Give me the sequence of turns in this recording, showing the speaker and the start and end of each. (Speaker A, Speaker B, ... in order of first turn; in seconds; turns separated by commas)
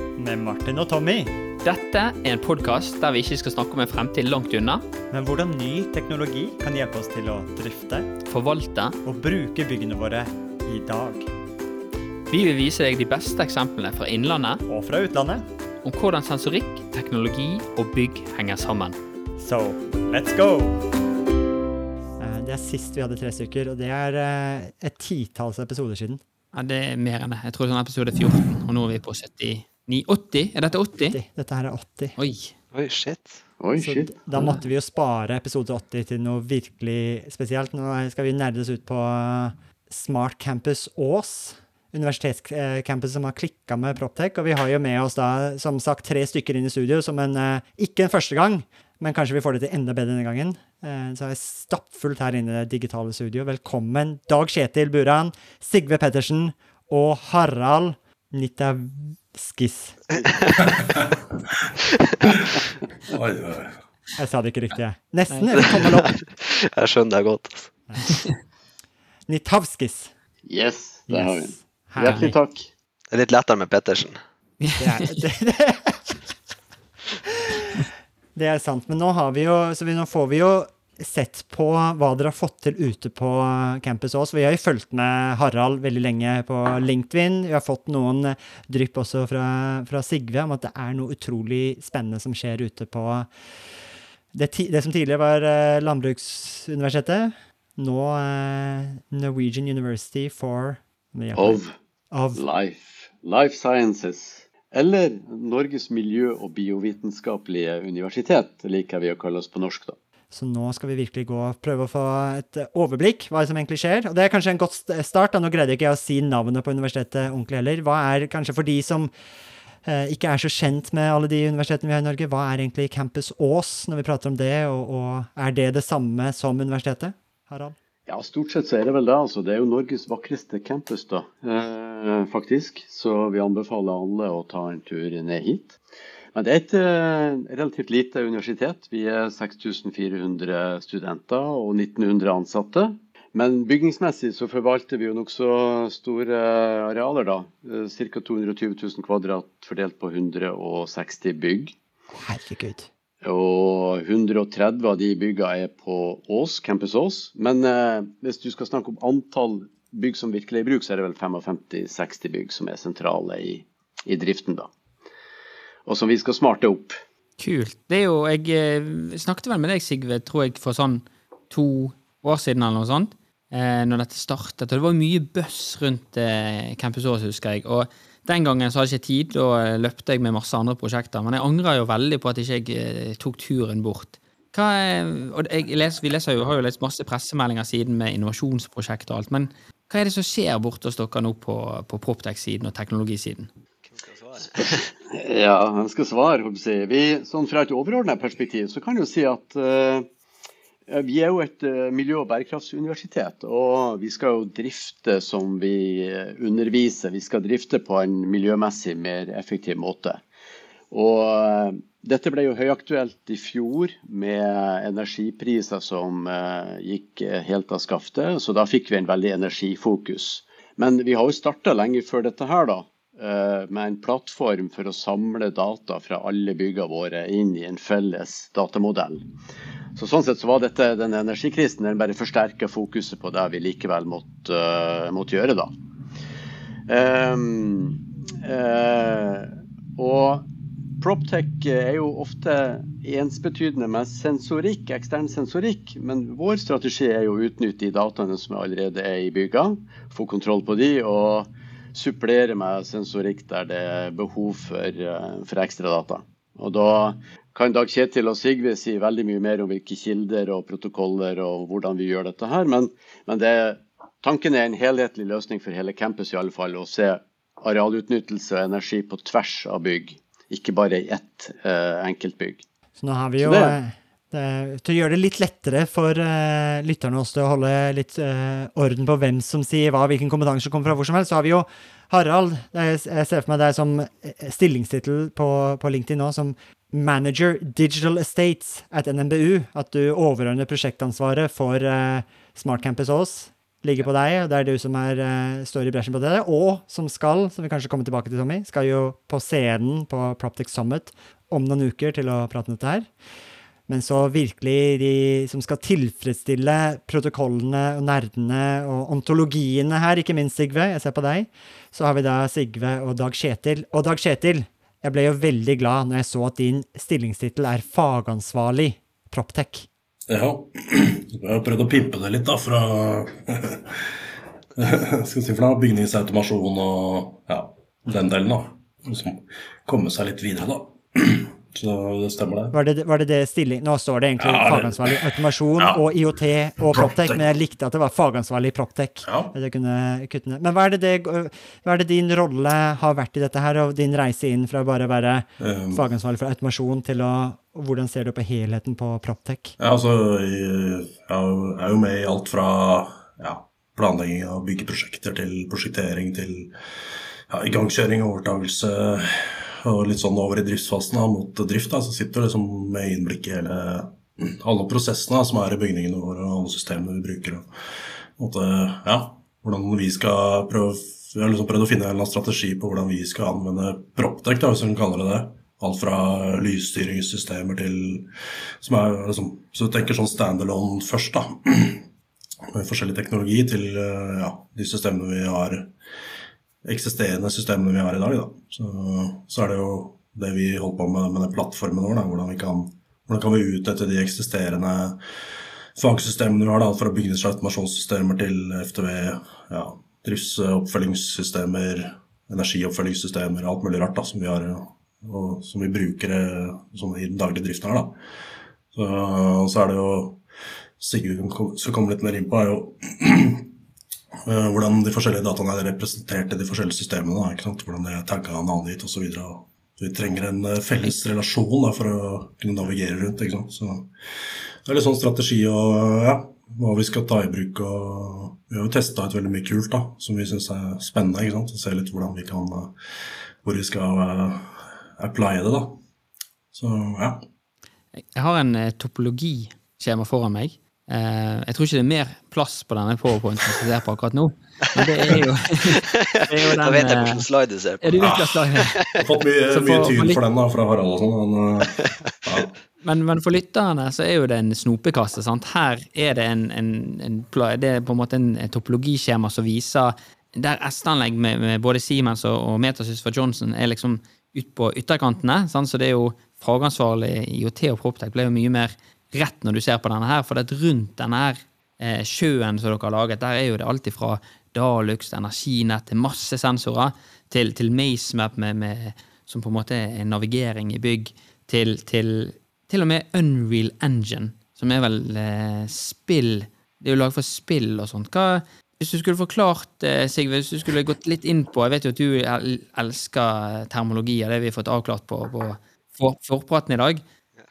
Speaker A: 0.1-1.4, Speaker B: 1.6-4.8, Speaker A: 5.1-8.1, Speaker B: 8.2-8.9, Speaker A: 9.0-11.3, Speaker B: 12.3-14.6, Speaker A: 14.7-15.4, Speaker B: 15.8-19.0, Speaker A: 19.4-20.9, Speaker A: 22.2-26.2, Speaker B: 26.5-31.2, Speaker A: 31.1-32.2, Speaker B: 32.2-32.5, Speaker C: 32.7-33.4, Speaker D: 33.6-34.5, Speaker A: 33.8-60.0, Speaker E: 60.6-61.1, Speaker E: 62.2-63.8, Speaker A: 64.2-66.2, Speaker C: 65.7-67.7, Speaker A: 67.9-68.1, Speaker A: 69.3-70.1, Speaker D: 70.5-72.7, Speaker A: 71.1-72.4, Speaker C: 73.1-74.2, Speaker B: 74.6-75.2, Speaker A: 74.8-76.1, Speaker A: 77.5-77.8, Speaker A: 78.3-93.3, Speaker A: 94.3-101.6, Speaker D: 101.3-101.7, Speaker A: 102.1-102.4, Speaker D: 102.3-110.0, Speaker A: 110.3-119.1, Speaker A: 119.8-127.8, Speaker D: 128.1-135.8, Speaker D: 136.3-151.8, Speaker A: 152.2-152.9, Speaker D: 153.2-164.7, Speaker D: 165.9-167.0, Speaker B: 167.4-193.5, Speaker C: 193.8-194.9, Speaker D: 194.4-200.1, Speaker D: 200.9-210.2, Speaker D: 210.9-229.2, Speaker D: 230.0-235.7, Speaker D: 236.9-240.5, Speaker D: 241.0-272.6, Speaker A: 273.0-303.1, Speaker D: 273.4-273.8, Speaker A: 303.9-319.9, Speaker E: 320.3-324.2, Speaker E: 324.8-332.8, Speaker A: 332.7-349.8, Speaker E: 334.4-336.1, Speaker E: 336.9-337.4, Speaker E: 339.2-339.5, Speaker E: 345.6-346.0, Speaker E: 349.8-356.7, Speaker E: 357.5-367.7, Speaker E: 368.4-382.1, Speaker E: 382.7-385.9, Speaker E: 386.8-395.2, Speaker E: 396.0-408.1, Speaker E: 408.9-410.4, Speaker E: 411.0-413.7, Speaker E: 414.4-424.1, Speaker E: 424.8-432.9, Speaker E: 433.6-436.0, Speaker E: 436.7-437.4, Speaker B: 438.2-447.4, Speaker C: 446.0-449.2, Speaker B: 448.0-449.0, Speaker E: 448.2-452.7, Speaker B: 449.7-450.4, Speaker B: 453.0-497.2